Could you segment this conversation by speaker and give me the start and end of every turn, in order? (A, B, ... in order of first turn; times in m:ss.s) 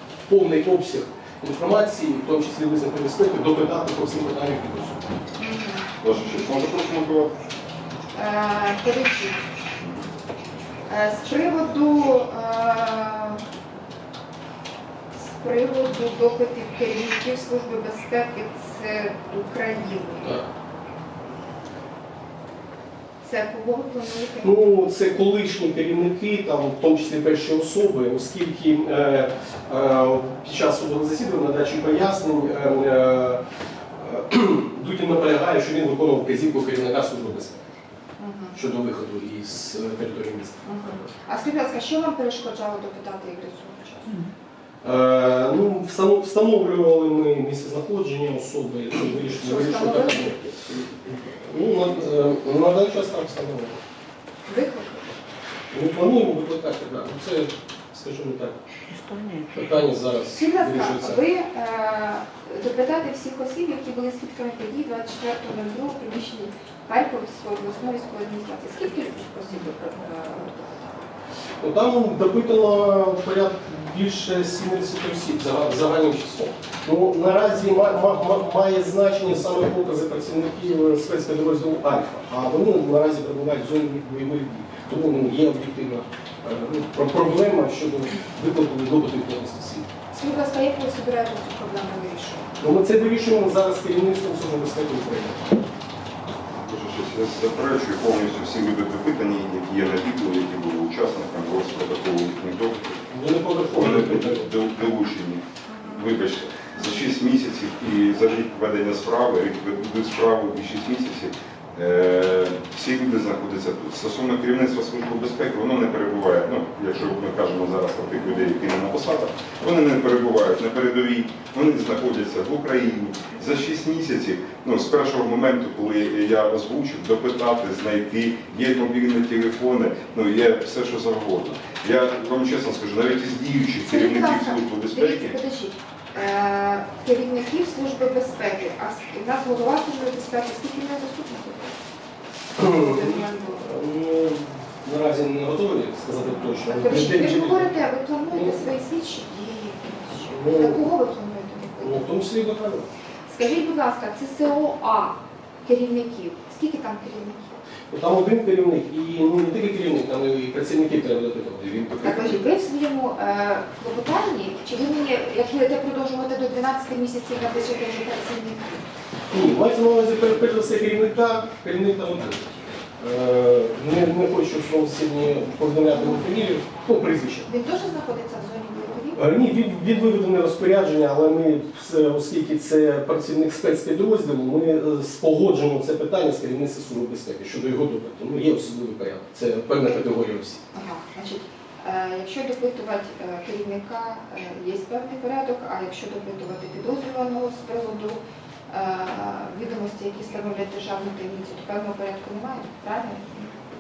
0:00.3-0:05.1 A
0:05.4-0:05.9 B
0:06.0-0:07.3 C
0:08.1-0:09.5 B
0:09.8-0:10.1 C
0:10.9-0:13.4 B
0:15.1-0:20.4 B
0:23.2-0:24.5 B
0:24.4-0:33.4 A
0:34.0-0:37.7 A
0:38.2-0:38.6 B
0:38.5-0:40.7 A
0:40.6-0:44.2 B
0:44.8-0:53.8 A
0:49.0-0:50.5 B
0:54.5-0:55.1 B
0:55.7-0:58.6 A
0:59.5-1:01.2 A
1:00.3-1:11.0 B
1:11.6-1:29.9 A
1:30.1-1:32.6 B
1:32.6-1:35.5 A
1:36.6-1:43.0 C
1:43.1-1:44.5 A
1:43.7-2:15.4 C
1:45.7-1:46.1 B
2:13.8-2:21.7 B
2:22.6-2:27.7 A
2:22.6-2:23.6 B
2:26.6-2:32.0 B
2:28.3-2:28.6 A
2:30.3-2:30.9 A
2:31.8-2:32.9 A
2:33.3-2:37.5 B
2:37.9-2:42.4 A
2:42.0-2:48.8 B
2:49.3-2:57.5 A
2:55.9-2:56.2 B
2:57.4-2:59.2 B
2:59.2-3:10.6 A
3:10.7-3:23.6 B